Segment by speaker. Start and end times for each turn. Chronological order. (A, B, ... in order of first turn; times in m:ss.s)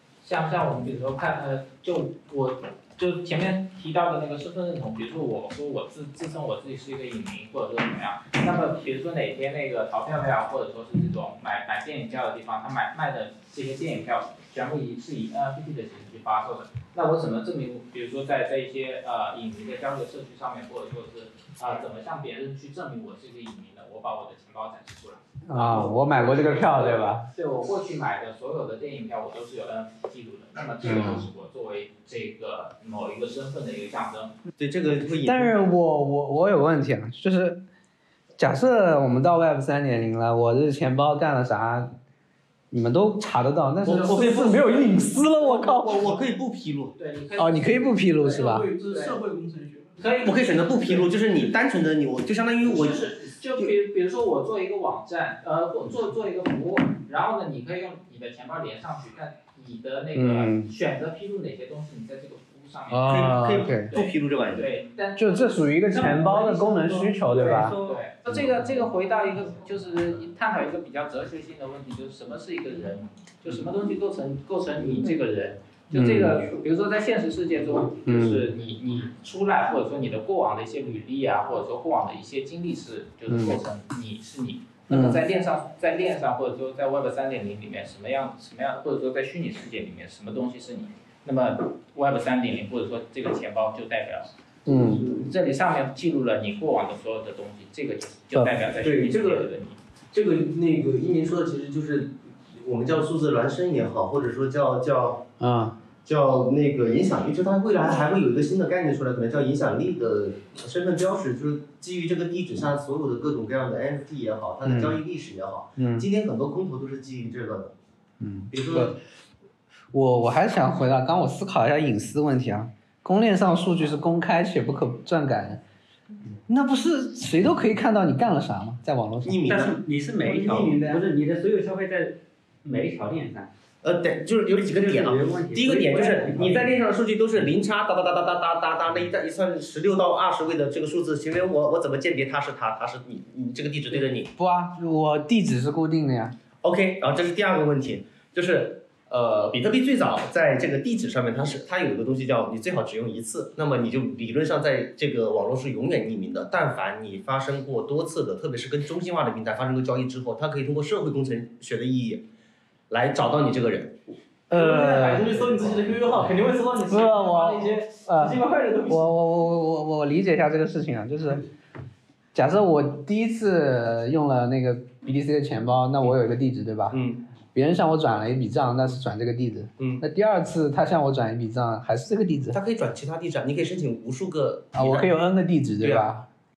0:00.2-0:34.4 A
0:25.4-0:27.3 B
0:30.8-0:31.2 B
0:34.6-0:35.6 C
0:35.0-0:37.6 B
0:38.4-0:41.9 B
0:42.7-0:46.2 B
0:43.8-0:47.0 C
0:44.0-0:44.6 A
0:47.0-0:49.2 A
0:47.4-0:48.7 B
0:48.3-0:50.1 D
0:50.0-0:51.0 A
0:50.2-0:53.7 C
0:52.6-1:06.9 A
1:00.1-1:00.7 B
1:02.9-1:04.0 B
1:03.1-1:04.7 C
1:05.2-1:07.8 B
1:05.9-1:08.0 E
1:07.7-1:34.3 A
1:15.9-1:16.5 B
1:18.1-1:18.5 B
1:23.3-1:23.6 B
1:24.9-1:25.2 B
1:34.7-1:35.1 B
1:34.8-1:39.8 A
1:38.3-1:38.7 B
1:38.8-1:39.5 C
1:40.1-1:45.3 C
1:45.4-1:45.8 B
1:46.0-1:57.7 C
1:54.6-1:55.0 B
1:55.8-1:56.1 B
1:58.2-1:59.0 B
1:58.5-1:59.0 C
1:59.9-2:05.6 B
2:06.4-2:09.4 B
2:09.2-2:09.8 C
2:09.4-2:13.5 E
2:10.2-2:11.0 D
2:13.8-2:24.3 C
2:14.7-2:16.9 E
2:24.4-2:26.4 B
2:26.6-2:42.2 C
2:42.9-2:44.0 C
2:44.5-2:45.3 B
2:44.5-2:49.0 D
2:44.9-2:46.1 A
2:46.9-2:51.5 B
2:52.3-2:57.0 B
2:56.9-2:57.2 C
2:57.6-3:02.6 B
3:02.5-3:05.2 C
3:04.7-3:06.3 B